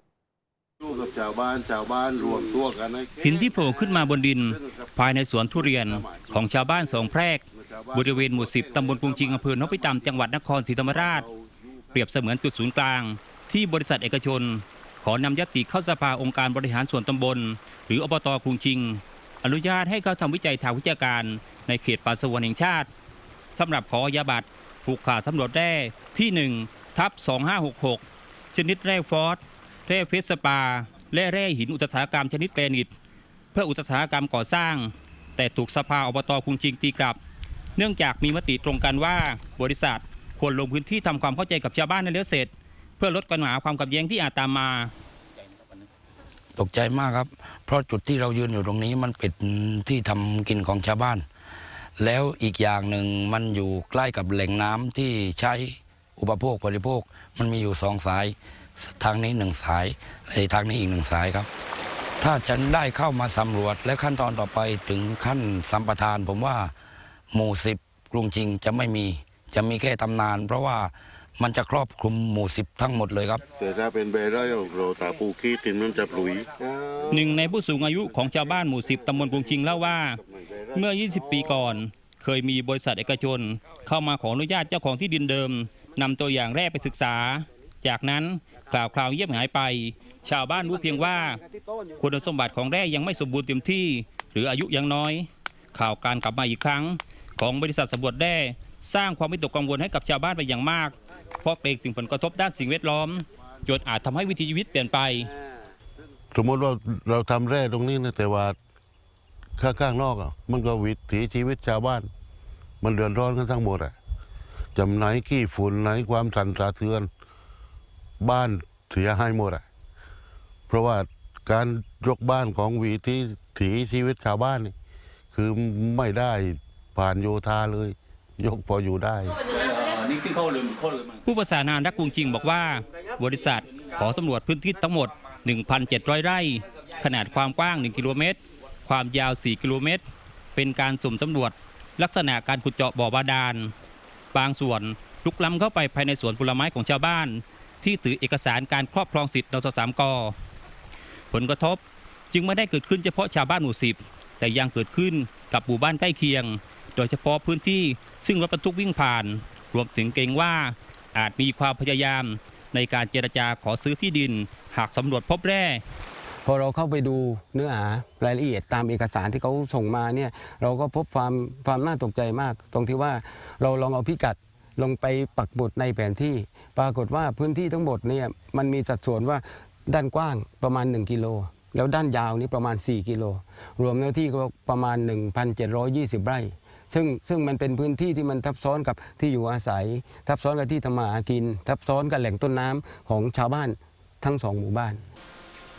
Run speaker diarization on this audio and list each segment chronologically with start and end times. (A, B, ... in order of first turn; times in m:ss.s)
0:00.8-0:03.2 A
0:03.2-0:11.3 B
0:11.9-0:22.9 B
0:23.6-0:32.9 B
0:33.5-0:37.2 B
0:37.8-0:44.9 B
0:46.5-0:51.2 C
0:52.0-1:01.5 C
1:02.2-1:06.7 C
1:07.3-1:13.4 C
1:13.6-1:16.5 A
1:17.0-1:20.2 B
1:20.7-1:31.4 B
1:32.0-1:45.3 B
1:46.3-1:48.6 A
1:49.6-1:52.1 A
1:52.8-1:53.9 A
1:54.7-1:57.1 A
1:58.2-1:59.6 A
2:00.7-2:04.7 A
2:05.3-2:09.4 A
2:11.2-2:20.0 B
2:20.5-2:23.7 B
2:24.3-2:30.3 B
2:31.3-2:45.8 B
2:46.4-3:15.0 D